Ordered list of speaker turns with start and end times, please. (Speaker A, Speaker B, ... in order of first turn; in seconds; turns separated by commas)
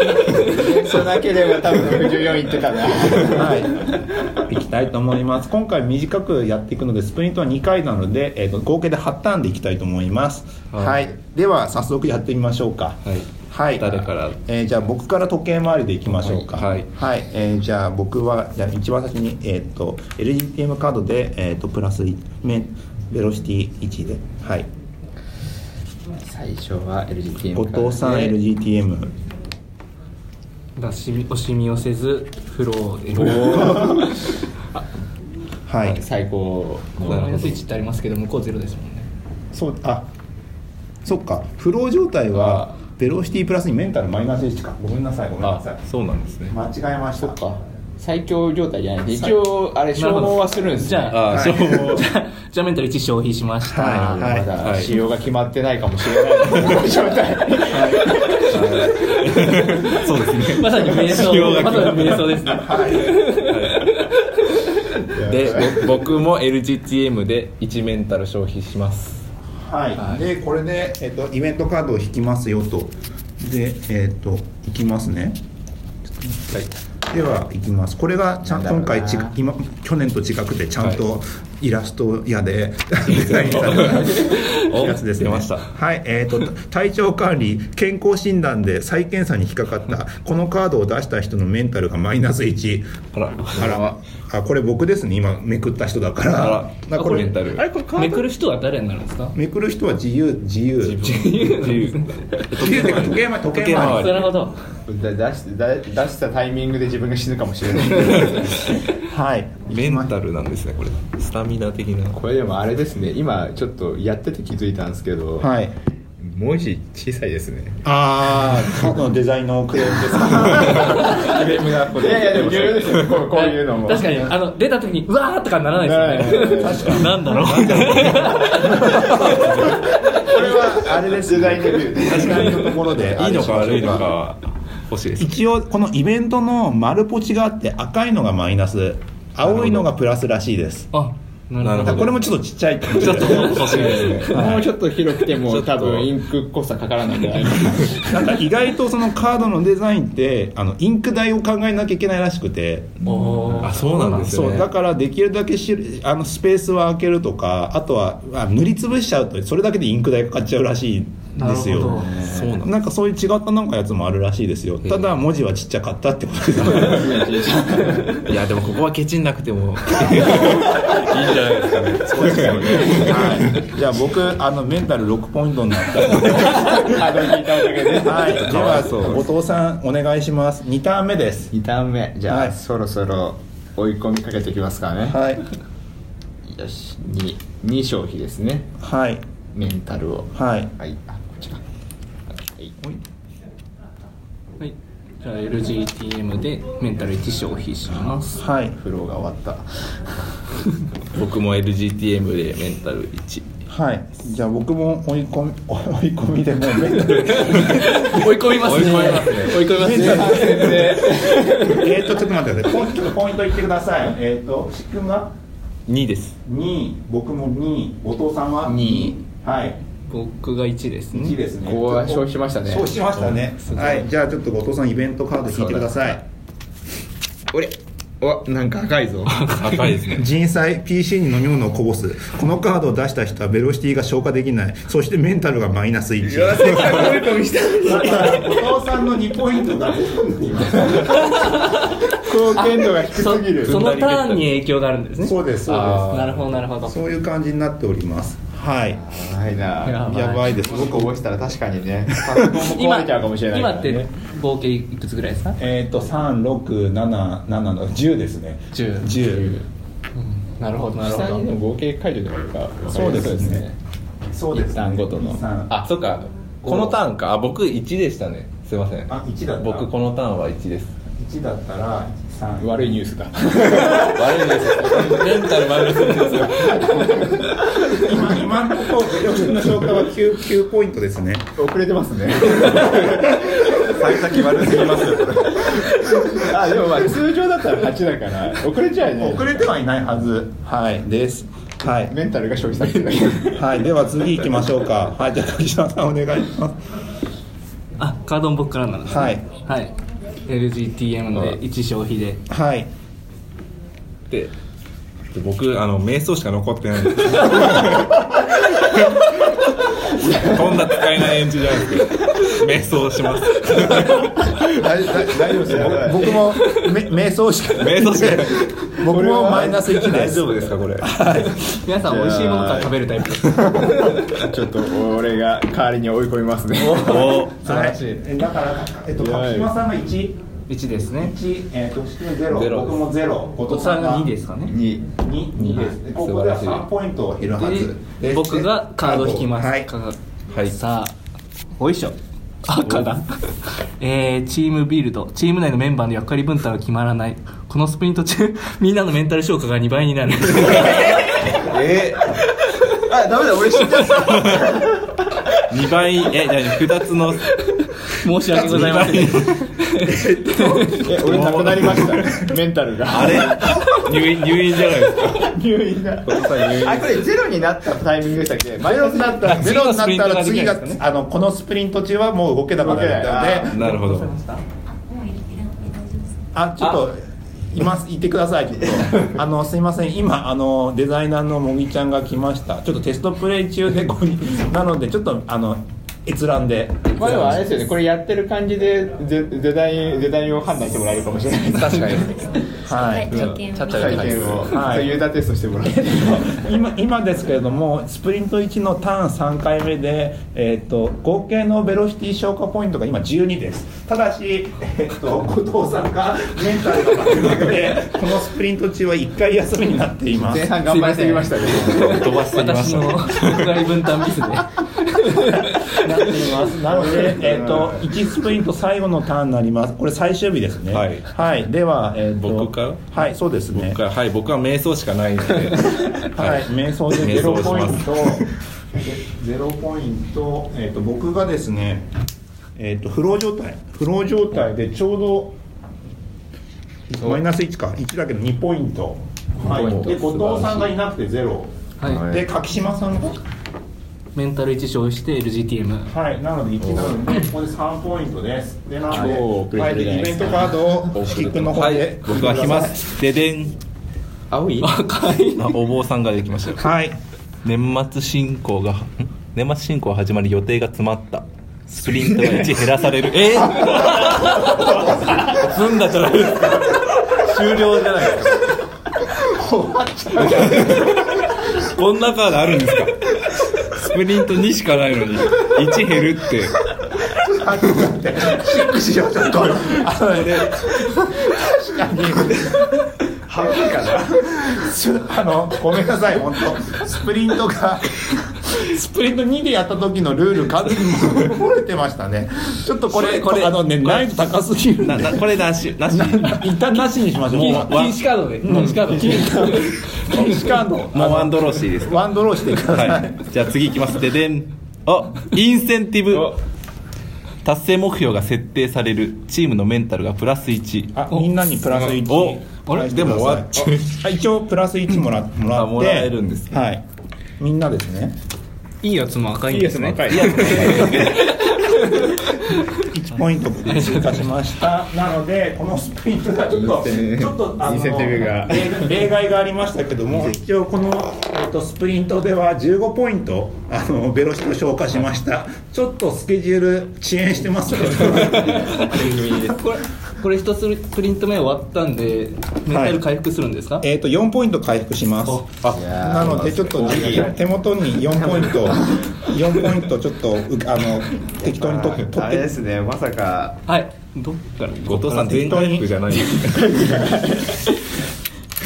Speaker A: 0.2-0.7, Speaker B: 0.3-3.6, Speaker C: 3.3-24.7, Speaker D: 10.7-11.0, Speaker D: 13.8-14.4, Speaker D: 16.5-16.9, Speaker B: 26.2-28.4, Speaker C: 27.5-29.1, Speaker A: 30.8-34.8, Speaker D: 33.2-33.8, Speaker C: 33.3-34.0, Speaker C: 35.7-36.0, Speaker B: 35.8-37.6, Speaker A: 37.0-39.1, Speaker C: 39.5-40.1, Speaker C: 41.0-45.8, Speaker D: 42.3-42.7, Speaker D: 45.4-46.5, Speaker C: 46.5-47.5, Speaker D: 47.2-47.6, Speaker B: 48.0-51.1, Speaker A: 50.0-54.2, Speaker D: 51.1-52.0, Speaker C: 51.2-51.8, Speaker C: 53.6-54.5, Speaker B: 53.8-59.2, Speaker D: 54.6-55.0, Speaker C: 57.7-58.1, Speaker A: 57.7-59.0, Speaker D: 58.5-62.5, Speaker A: 60.5-64.5, Speaker C: 62.5-63.2, Speaker D: 63.4-63.9, Speaker B: 65.1-66.0, Speaker D: 65.2-69.3, Speaker C: 69.6-75.4, Speaker C: 77.1-97.3, Speaker B: 78.5-79.4, Speaker D: 83.1-85.7, Speaker D: 93.1-94.0, Speaker D: 96.3-97.9, Speaker A: 97.0-99.4, Speaker C: 99.3-101.1, Speaker D: 100.8-104.3, Speaker A: 101.0-102.8, Speaker C: 102.6-104.3, Speaker A: 103.7-104.5, Speaker B: 104.9-108.8, Speaker C: 109.0-110.1, Speaker D: 109.7-112.2, Speaker B: 112.1-115.5, Speaker C: 115.4-115.8, Speaker B: 116.2-117.8, Speaker C: 117.8-121.4, Speaker B: 120.5-124.3, Speaker D: 120.6-123.0, Speaker A: 123.3-129.3, Speaker B: 125.8-127.1, Speaker C: 126.6-134.1, Speaker B: 129.3-132.9, Speaker D: 132.1-135.3, Speaker C: 135.2-140.9, Speaker D: 139.4-139.8, Speaker A: 140.9-142.2, Speaker D: 141.6-142.2, Speaker C: 141.8-144.7, Speaker D: 142.9-144.5, Speaker A: 143.1-144.3, Speaker B: 143.7-148.2, Speaker D: 145.3-146.1, Speaker C: 148.0-153.2, Speaker A: 153.0-154.4, Speaker D: 153.6-154.7, Speaker C: 154.2-167.3, Speaker A: 161.3-162.1, Speaker B: 161.9-162.5, Speaker D: 162.1-162.8, Speaker D: 164.9-165.1, Speaker B: 166.7-168.3, Speaker D: 168.2-173.6, Speaker C: 170.1-171.1, Speaker C: 172.1-177.0, Speaker B: 172.2-173.5, Speaker B: 176.8-178.9, Speaker C: 177.9-181.5, Speaker D: 178.2-179.2, Speaker B: 181.5-185.2, Speaker C: 182.3-182.6, Speaker C: 185.0-185.4, Speaker B: 186.5-188.7, Speaker C: 188.8-189.2, Speaker B: 189.5-191.6, Speaker C: 190.3-190.7, Speaker B: 192.3-192.8, Speaker A: 194.6-198.4, Speaker C: 198.3-198.8, Speaker B: 198.7-200.1, Speaker D: 201.1-203.5, Speaker C: 203.7-208.1, Speaker A: 207.4-211.8, Speaker D: 208.5-209.7, Speaker C: 209.7-211.0, Speaker B: 209.7-211.7, Speaker C: 211.6-215.3, Speaker D: 215.9-216.4, Speaker C: 216.4-219.8, Speaker B: 218.7-219.2, Speaker A: 220.1-221.4, Speaker C: 221.1-226.2, Speaker B: 221.7-222.9, Speaker B: 225.5-226.0, Speaker B: 227.5-229.8, Speaker D: 229.5-230.3, Speaker C: 230.1-237.3, Speaker B: 236.2-238.6, Speaker C: 237.8-241.6, Speaker A: 241.2-242.0, Speaker B: 242.2-244.0, Speaker A: 242.6-247.0, Speaker D: 243.8-244.3, Speaker C: 245.2-246.3, Speaker D: 245.7-246.5, Speaker C: 246.8-249.0, Speaker B: 248.9-254.0, Speaker A: 249.8-250.5, Speaker C: 250.0-251.2, Speaker A: 252.6-255.6, Speaker C: 255.6-259.5, Speaker A: 258.7-259.2, Speaker B: 259.3-259.6, Speaker A: 260.2-261.5, Speaker B: 261.0-263.8, Speaker C: 262.9-263.7, Speaker C: 264.3-265.7, Speaker B: 264.6-265.9, Speaker D: 265.7-270.9, Speaker C: 266.6-267.0, Speaker C: 269.1-269.9, Speaker C: 271.2-272.9, Speaker B: 272.6-277.9, Speaker D: 273.6-277.1, Speaker C: 277.8-281.5, Speaker B: 281.6-289.7, Speaker C: 282.9-283.2, Speaker D: 284.6-285.2, Speaker C: 289.2-292.1, Speaker B: 292.1-293.7, Speaker C: 293.5-296.8, Speaker A: 298.0-299.9, Speaker C: 299.1-299.4, Speaker A: 300.5-302.4, Speaker C: 302.5-302.9, Speaker D: 305.3-309.5, Speaker D: 310.1-314.8, Speaker B: 310.1-311.0, Speaker C: 313.9-321.8, Speaker B: 315.6-316.4, Speaker A: 316.6-316.9, Speaker D: 317.8-318.7, Speaker B: 319.0-320.3, Speaker D: 320.0-321.1, Speaker A: 321.7-324.3, Speaker B: 322.0-323.0, Speaker B: 324.0-327.3, Speaker A: 326.8-328.2, Speaker D: 326.9-327.6, Speaker C: 327.3-330.4, Speaker B: 329.2-329.7, Speaker A: 330.7-331.4, Speaker C: 331.2-334.3, Speaker D: 332.5-333.0, Speaker A: 333.6-334.8, Speaker B: 334.7-335.2, Speaker C: 335.2-339.9, Speaker D: 335.7-336.9, Speaker A: 337.6-341.1, Speaker A: 341.8-351.6, Speaker D: 342.8-343.1, Speaker B: 350.9-352.4, Speaker B: 352.9-354.9, Speaker D: 354.3-354.7, Speaker D: 355.7-357.5, Speaker A: 357.7-361.1, Speaker D: 358.5-359.6, Speaker C: 360.1-360.9, Speaker B: 361.0-363.8, Speaker D: 361.1-362.5, Speaker D: 363.1-365.6, Speaker B: 365.3-369.7, Speaker D: 366.2-367.2, Speaker C: 368.8-373.7, Speaker A: 369.5-371.0, Speaker B: 372.8-373.8, Speaker D: 373.7-374.3, Speaker A: 373.7-374.6, Speaker E: 374.9-376.4, Speaker C: 376.5-387.5, Speaker B: 387.2-392.4, Speaker D: 387.2-387.6, Speaker D: 391.7-392.3, Speaker C: 392.9-393.4, Speaker E: 392.9-394.3, Speaker D: 393.3-394.7, Speaker B: 393.9-396.6, Speaker C: 394.6-395.2, Speaker C: 395.9-410.8, Speaker B: 410.4-412.3, Speaker A: 410.9-416.5, Speaker D: 411.6-413.8, Speaker C: 415.7-424.0, Speaker B: 416.9-418.1, Speaker D: 420.9-421.3, Speaker D: 422.4-423.1, Speaker D: 423.7-428.5, Speaker C: 426.3-432.1, Speaker C: 432.8-435.6, Speaker C: 437.1-443.4, Speaker D: 439.6-440.9, Speaker B: 442.1-442.4, Speaker A: 444.4-446.1, Speaker C: 446.1-453.1, Speaker D: 446.8-447.2, Speaker B: 449.1-450.8, Speaker D: 451.1-453.7, Speaker B: 454.5-455.0, Speaker A: 454.8-455.8, Speaker D: 455.6-456.9, Speaker C: 456.8-457.2, Speaker D: 457.6-468.7, Speaker C: 464.6-465.5, Speaker C: 469.6-471.2, Speaker D: 470.4-476.8, Speaker C: 477.3-483.1, Speaker B: 483.5-484.7, Speaker C: 483.6-498.1, Speaker D: 493.2-494.2, Speaker D: 495.0-496.7, Speaker D: 497.5-499.2, Speaker A: 497.5-500.6, Speaker C: 498.6-503.5, Speaker B: 499.2-499.8, Speaker D: 501.1-506.6, Speaker B: 506.3-506.6, Speaker D: 507.6-511.2, Speaker C: 511.1-517.0, Speaker D: 512.0-514.2, Speaker D: 515.7-516.8, Speaker C: 517.6-518.4, Speaker A: 519.0-523.1, Speaker B: 519.7-521.4, Speaker D: 520.3-521.5, Speaker C: 523.0-539.0, Speaker A: 523.8-524.5, Speaker B: 526.7-529.2, Speaker B: 538.3-539.8, Speaker A: 538.3-544.0, Speaker C: 542.9-543.2, Speaker C: 544.0-552.7, Speaker D: 545.8-546.7, Speaker B: 545.9-547.6, Speaker B: 548.4-549.3, Speaker B: 551.6-553.8, Speaker A: 553.9-555.8, Speaker D: 555.1-557.1, Speaker C: 555.3-556.1, Speaker B: 556.6-557.8